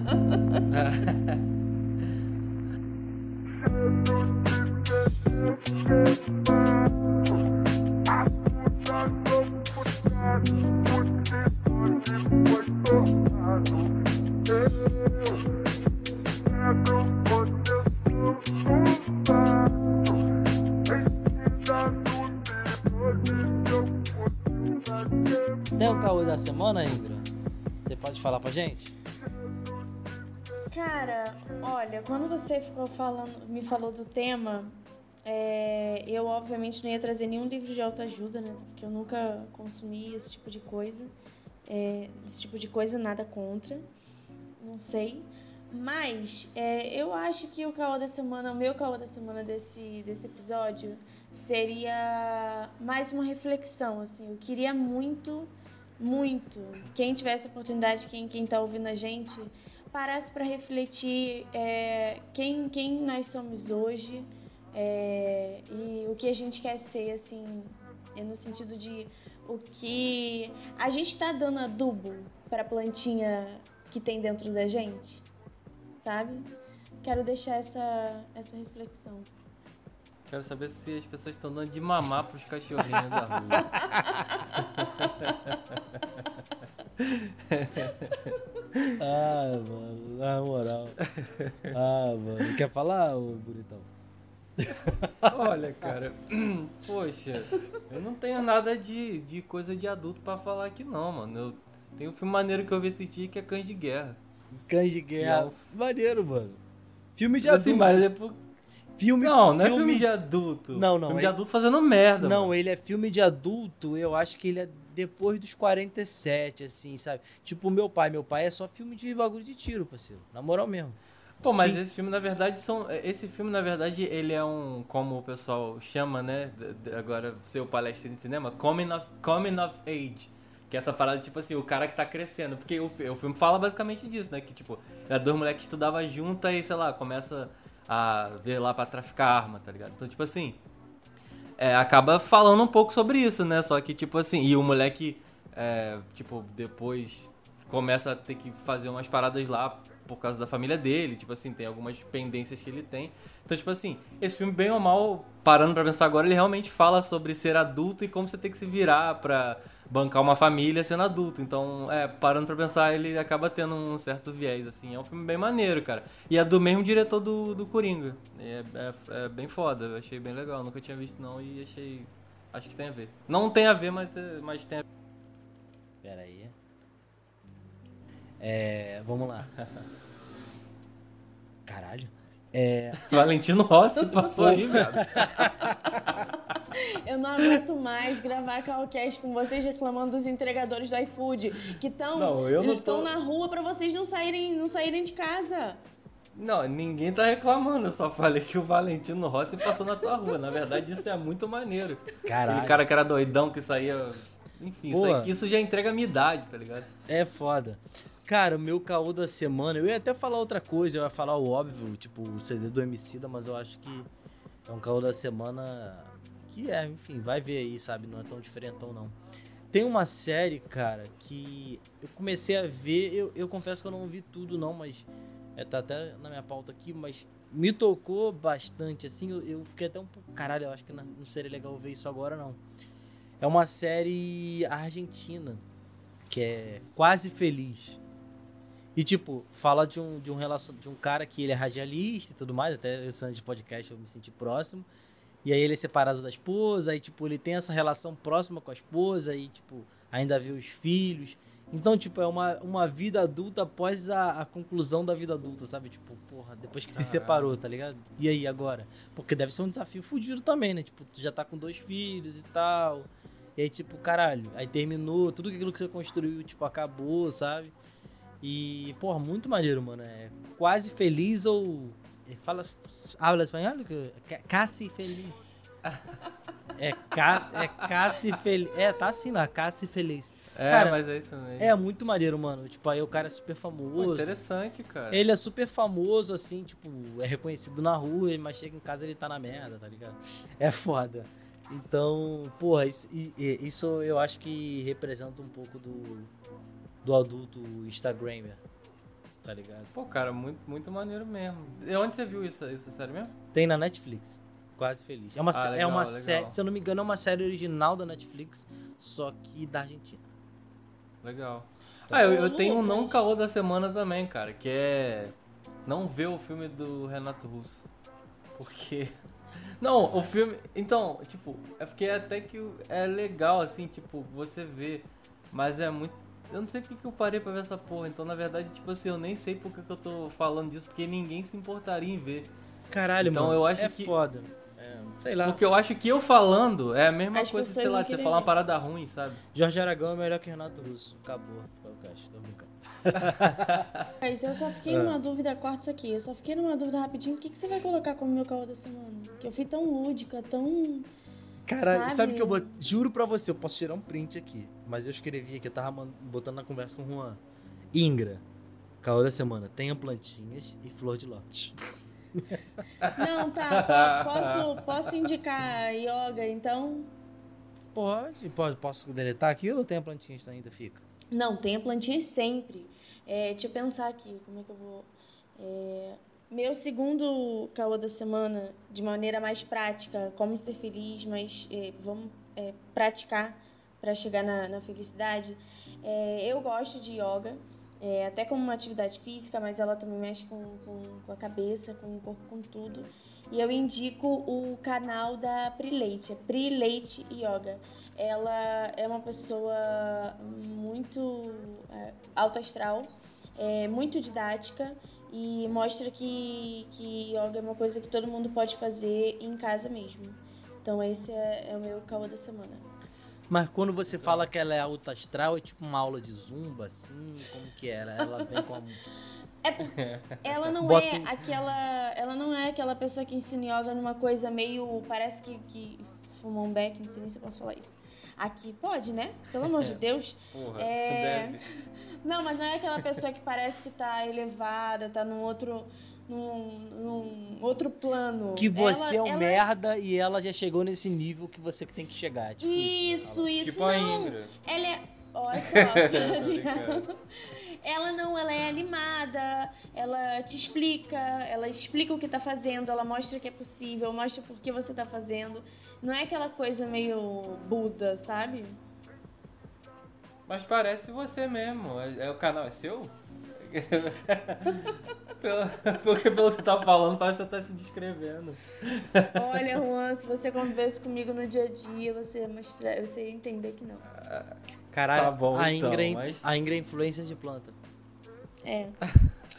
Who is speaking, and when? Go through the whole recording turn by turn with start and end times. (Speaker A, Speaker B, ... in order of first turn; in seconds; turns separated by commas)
Speaker A: 0.7-1.4, Speaker B: 25.8-27.3, Speaker B: 27.9-28.9, Speaker C: 30.7-41.1, Speaker C: 41.7-43.9, Speaker C: 44.6-75.2, Speaker C: 76.0-79.3, Speaker A: 80.3-83.7, Speaker B: 83.2-83.8, Speaker C: 83.6-84.4, Speaker A: 84.5-86.2, Speaker A: 87.0-89.0, Speaker B: 89.0-91.0, Speaker A: 91.1-91.8, Speaker B: 91.7-93.9, Speaker B: 94.6-95.9, Speaker A: 95.3-104.2, Speaker B: 104.5-106.6, Speaker A: 105.2-105.6, Speaker B: 107.2-108.1, Speaker A: 107.4-108.4, Speaker B: 109.0-110.1, Speaker A: 109.2-112.5, Speaker B: 110.7-111.4, Speaker B: 112.2-121.8, Speaker A: 121.4-140.6, Speaker A: 141.6-174.8, Speaker B: 176.0-176.6, Speaker B: 178.4-179.5, Speaker B: 181.7-183.1, Speaker A: 183.1-185.5, Speaker B: 184.3-185.5, Speaker C: 186.7-195.8, Speaker A: 192.1-193.1, Speaker A: 196.3-206.9, Speaker B: 202.3-202.8, Speaker B: 204.9-205.3, Speaker B: 207.1-214.1, Speaker B: 214.7-219.2, Speaker B: 219.7-232.6, Speaker B: 233.4-235.6, Speaker B: 236.3-238.0, Speaker B: 239.0-244.9, Speaker B: 245.4-267.7, Speaker A: 256.9-257.6, Speaker B: 268.4-275.6, Speaker B: 276.8-281.0, Speaker A: 277.5-277.9, Speaker A: 280.6-281.7, Speaker B: 281.6-284.3, Speaker A: 284.0-285.2, Speaker B: 285.1-296.3, Speaker B: 297.0-298.6, Speaker B: 299.4-299.9, Speaker A: 299.9-303.4, Speaker B: 303.5-310.2, Speaker A: 305.5-306.6, Speaker A: 311.2-315.3, Speaker C: 312.1-313.2, Speaker A: 315.9-317.9, Speaker A: 318.6-319.1, Speaker A: 319.8-332.5, Speaker B: 332.9-335.6, Speaker A: 333.2-334.1, Speaker A: 335.4-339.4, Speaker C: 337.3-338.5, Speaker B: 339.5-343.9, Speaker A: 343.5-343.8, Speaker C: 344.2-351.1, Speaker B: 344.9-345.2, Speaker B: 351.6-357.4, Speaker C: 351.8-352.7, Speaker B: 357.9-358.4, Speaker B: 359.0-361.8, Speaker B: 362.3-362.8, Speaker C: 363.1-367.1, Speaker A: 363.7-364.8, Speaker B: 367.9-371.0, Speaker C: 371.3-412.9, Speaker B: 413.5-419.0, Speaker A: 414.2-414.5, Speaker C: 419.6-431.7, Speaker A: 420.0-420.4, Speaker B: 420.8-421.4, Speaker A: 429.7-430.0, Speaker A: 430.5-431.6, Speaker C: 432.2-439.6, Speaker B: 438.6-443.5, Speaker C: 442.6-458.8, Speaker A: 443.6-444.5, Speaker A: 445.6-447.1, Speaker A: 460.5-469.3, Speaker C: 469.3-474.1, Speaker A: 474.2-474.5, Speaker B: 474.9-477.8, Speaker A: 475.1-476.5, Speaker C: 478.7-479.0